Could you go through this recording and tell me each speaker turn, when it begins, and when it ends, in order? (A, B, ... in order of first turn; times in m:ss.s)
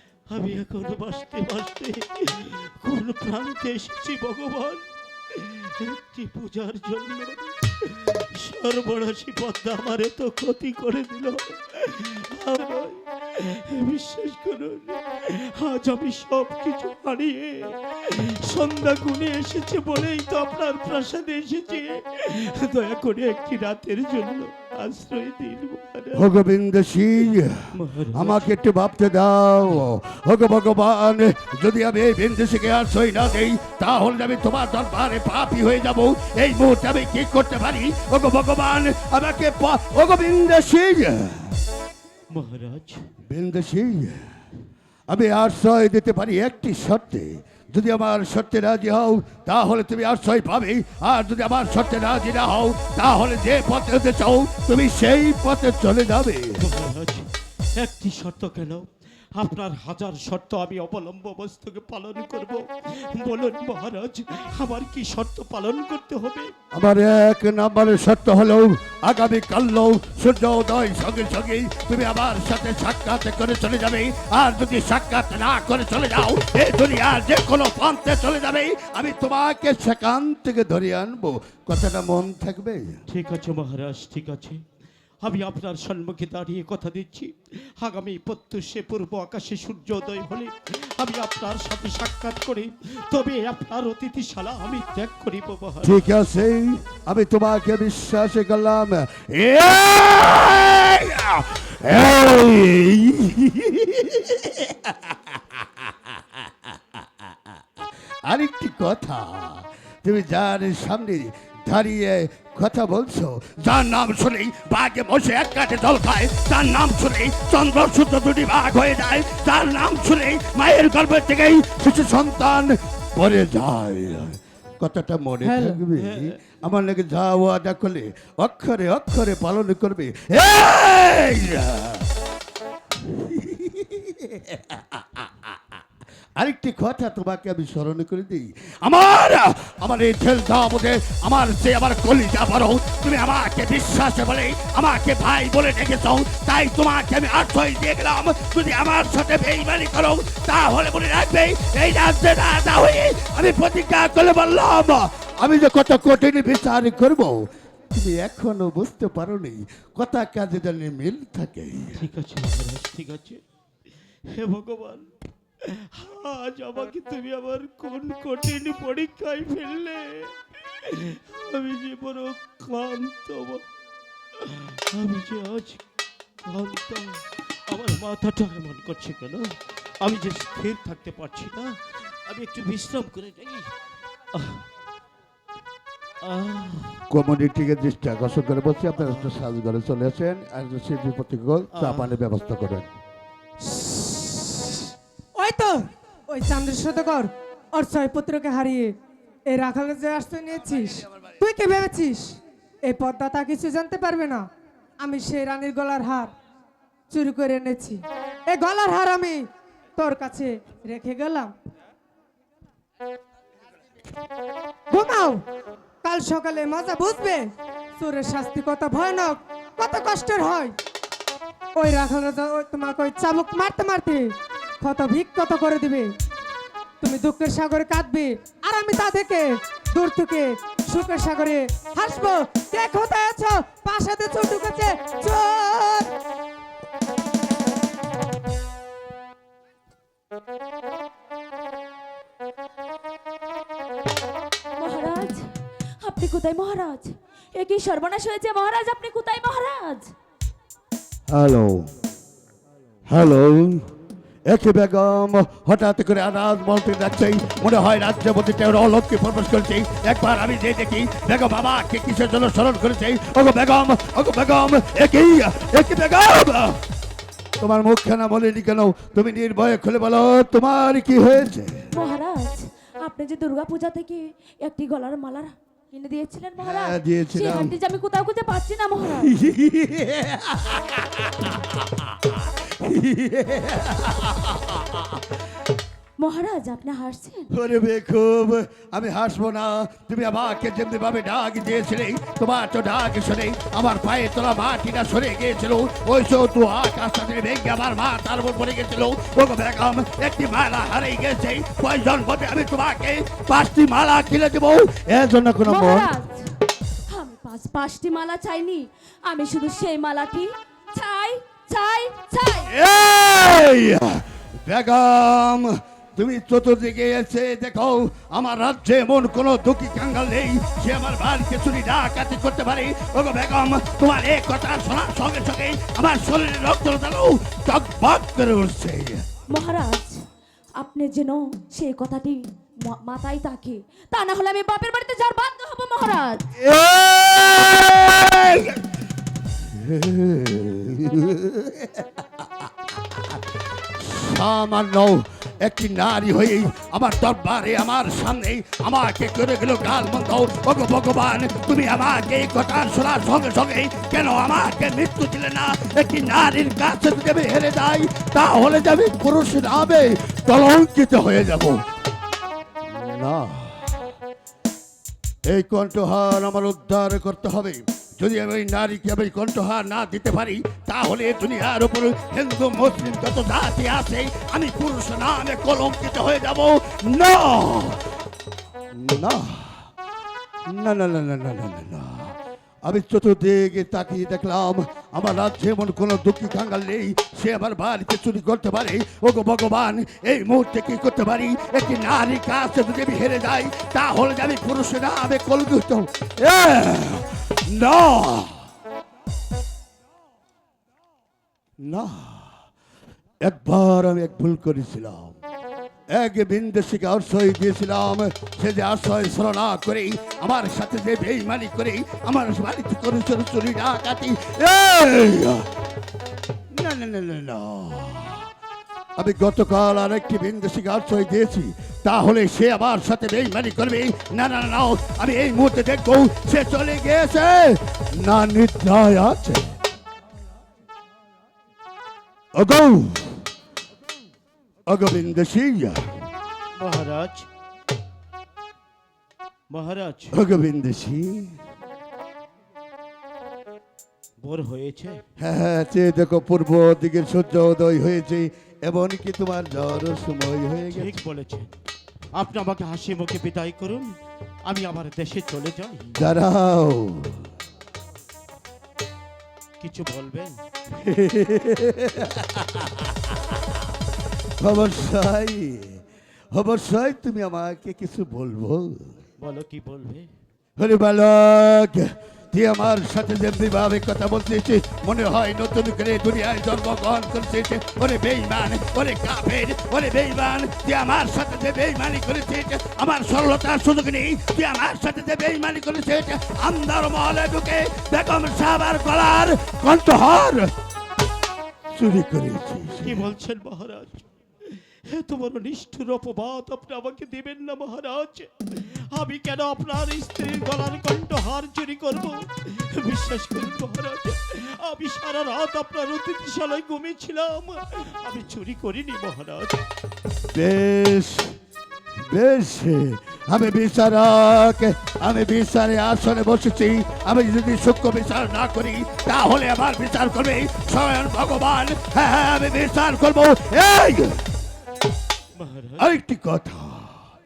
0:00.3-0:26.2 A
0:26.1-0:27.6 B
0:27.7-0:28.5 A
0:28.1-0:41.6 B
0:42.3-0:43.0 A
0:43.3-0:44.2 B
0:45.1-0:56.6 B
0:56.6-0:57.2 A
0:57.8-1:06.5 A
1:06.7-1:23.0 B
1:23.1-1:24.6 A
1:25.2-1:36.0 A
1:35.8-1:45.9 B
1:48.2-2:12.1 B
2:05.4-2:05.8 C
2:06.0-2:06.4 A
2:13.0-2:15.3 B
2:16.4-2:42.0 B
2:42.0-2:43.4 A
2:44.3-2:45.1 A
2:45.7-2:53.6 A
2:54.4-2:55.8 A
2:56.5-3:01.8 A
3:02.3-3:03.7 A
3:04.3-3:04.6 A
3:06.2-3:07.0 A
3:07.1-3:12.9 B
3:09.0-3:09.4 A
3:11.7-3:12.2 A
3:13.6-3:14.8 C
3:15.4-3:15.8 C
3:16.3-3:18.9 C
3:19.5-3:24.4 C
3:25.0-3:26.3 C
3:27.1-3:29.4 C
3:30.0-3:31.5 C
3:34.9-3:35.4 C
3:36.0-3:37.4 C
3:38.0-3:40.7 C
3:41.8-3:44.3 C
3:44.8-3:46.1 C
3:47.0-3:56.1 C
4:04.8-4:05.4 D
4:06.0-4:10.1 D
4:11.3-4:11.9 B
4:13.1-4:13.8 B
4:14.5-4:26.8 B
4:27.6-4:31.9 B
4:31.9-4:39.3 D
4:36.6-4:37.7 B
4:39.1-4:42.0 B
4:42.6-4:45.1 B
4:46.2-4:47.5 D
4:47.5-5:06.1 B
5:05.6-5:06.5 D
5:07.1-5:12.7 D
5:12.7-5:29.2 B
5:29.5-5:30.1 D
5:30.8-5:36.4 D
5:36.6-5:38.8 B
5:39.6-5:43.4 B
5:44.0-6:01.8 B
6:02.8-6:04.0 B
6:05.5-6:18.0 B
6:18.9-6:19.9 B
6:20.7-6:38.6 B
6:41.8-6:42.5 B
6:43.4-6:45.4 B
6:46.1-6:55.6 B
6:56.7-6:58.5 B
6:59.2-7:09.8 B
7:12.5-7:13.4 B
7:14.9-7:16.0 B
7:16.8-7:17.5 A
7:19.7-7:20.4 A
7:20.3-7:21.6 B
7:24.4-7:25.2 A
7:25.4-7:31.1 B
7:30.9-7:31.7 A
7:32.4-7:34.2 A
7:34.7-7:36.1 A
7:36.1-7:37.5 B
7:39.8-7:40.6 A
7:40.9-7:43.3 B
7:44.6-7:49.1 B
7:49.4-7:50.3 A
7:50.8-8:10.7 B
8:12.0-8:13.2 B
8:13.0-8:29.8 A
8:30.5-8:31.6 B
8:32.3-8:44.4 B
8:45.6-8:46.1 A
8:46.0-8:47.2 B